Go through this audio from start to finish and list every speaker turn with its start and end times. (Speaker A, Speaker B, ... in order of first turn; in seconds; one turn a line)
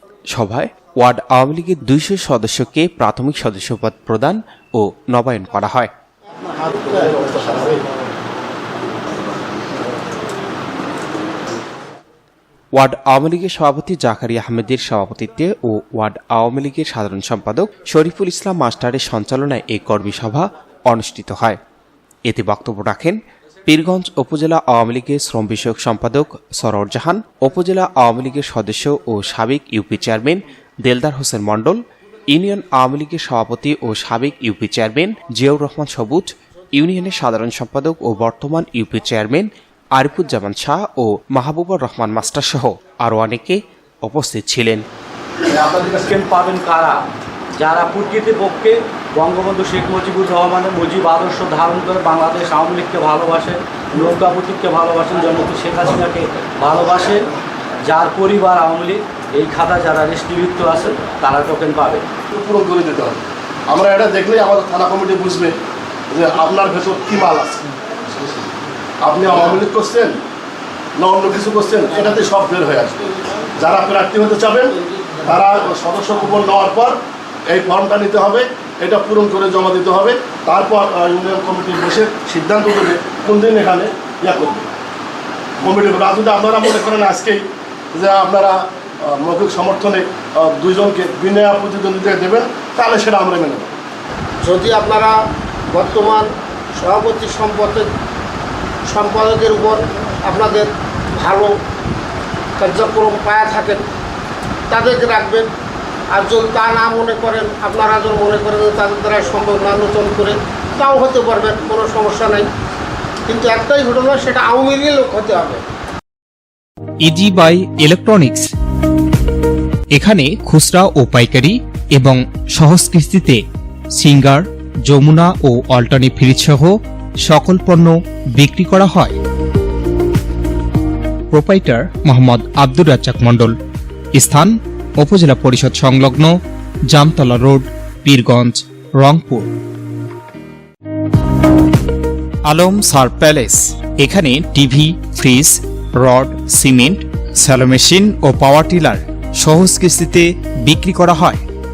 Speaker A: 0.3-5.9
Speaker B: 6.5-7.9
Speaker A: 12.8-21.6
Speaker A: 22.3-44.9
Speaker C: 45.5-47.0
Speaker C: 47.6-57.3
Speaker C: 57.8-62.1
Speaker B: 62.3-65.6
Speaker B: 66.1-68.4
Speaker B: 69.0-70.2
Speaker B: 71.0-84.7
Speaker B: 85.6-93.7
Speaker D: 94.4-95.1
Speaker D: 95.7-96.3
Speaker D: 96.8-97.9
Speaker D: 98.9-101.5
Speaker D: 102.6-103.8
Speaker D: 104.7-105.5
Speaker D: 106.1-112.5
Speaker D: 113.3-115.6
Speaker E: 117.1-118.4
Speaker E: 120.0-123.4
Speaker E: 124.0-126.7
Speaker E: 127.3-129.1
Speaker E: 131.3-133.5
Speaker E: 134.2-134.5
Speaker E: 135.0-136.3
Speaker E: 136.9-139.4
Speaker E: 142.5-151.4